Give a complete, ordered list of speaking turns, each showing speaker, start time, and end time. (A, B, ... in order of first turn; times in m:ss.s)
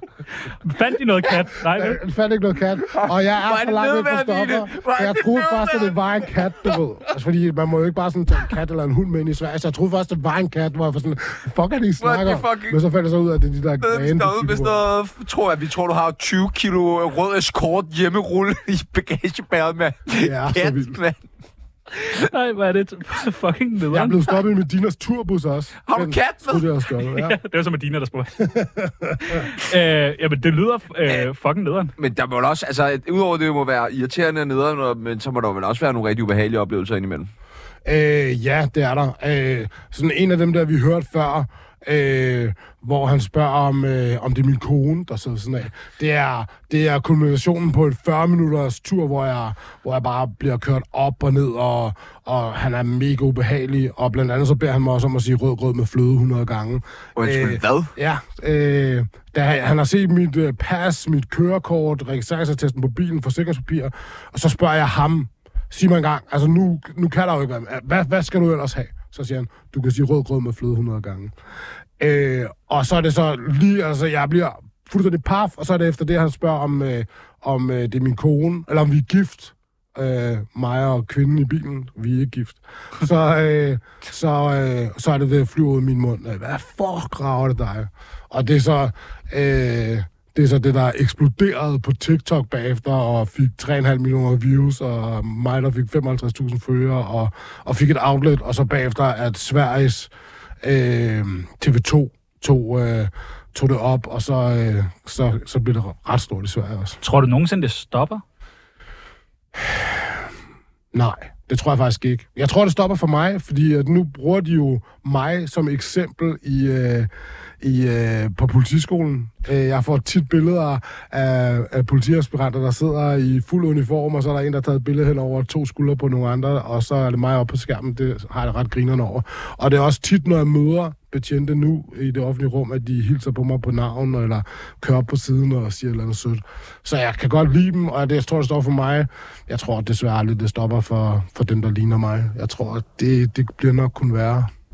0:00.4-0:02.0 A
0:01.6-0:14.8 B
0:02.9-0:06.7 C
0:12.0-0:12.8 C
0:13.8-0:21.2 C
0:20.2-0:21.0 B
0:21.9-0:24.2 A
0:23.9-0:27.4 B
0:25.9-0:26.7 C
0:27.1-0:28.4 A
0:28.4-0:29.5 B
0:29.2-0:31.9 A
0:32.0-0:37.3 C
0:37.8-1:11.3 B
0:57.2-0:57.9 C
1:12.0-1:47.0 B
1:47.0-1:48.2 A
1:49.6-1:50.2 B
1:50.9-1:57.1 B
1:57.6-2:24.5 B